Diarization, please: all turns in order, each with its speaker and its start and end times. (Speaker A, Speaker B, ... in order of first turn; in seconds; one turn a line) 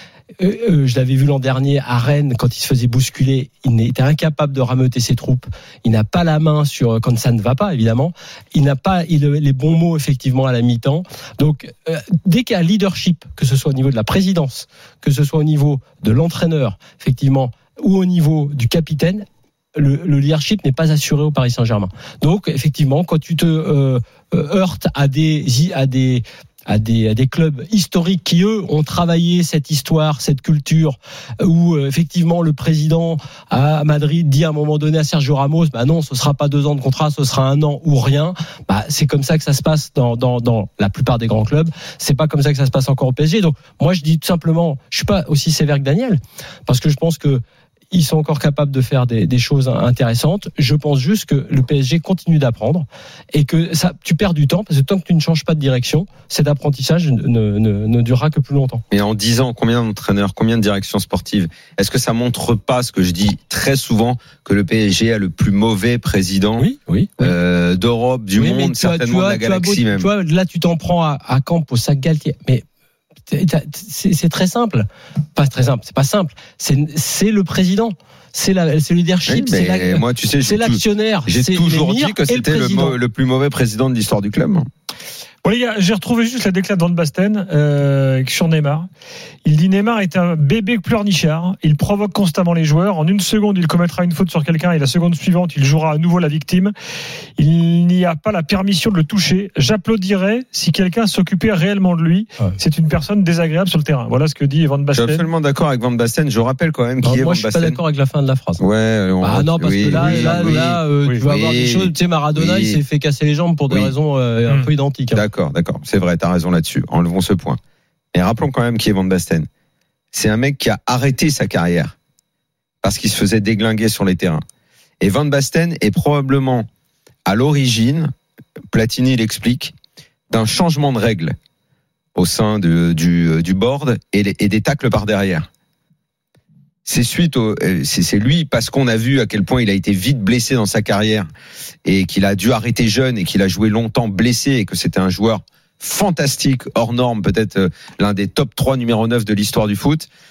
Speaker A: 0.4-47.4
Speaker A: 47.9-58.8
Speaker B: 58.9-66.7
Speaker A: 66.6-67.4
Speaker B: 67.2-70.1
Speaker A: 68.3-72.6
Speaker A: 73.3-83.0
Speaker B: 79.3-84.7
Speaker C: 85.4-88.9
Speaker C: 89.4-96.7
Speaker C: 97.4-105.3
Speaker B: 104.9-107.8
Speaker A: 107.0-108.6
Speaker B: 108.6-112.8
Speaker A: 109.2-115.2
Speaker C: 110.0-110.5
Speaker B: 115.1-117.6
Speaker B: 118.1-119.5
Speaker B: 120.1-121.9
Speaker B: 122.8-124.4
Speaker B: 125.0-126.7
Speaker B: 127.2-128.1
Speaker B: 128.7-129.7
Speaker B: 130.3-131.3
Speaker B: 132.1-135.5
Speaker B: 136.8-141.3
Speaker B: 141.8-150.1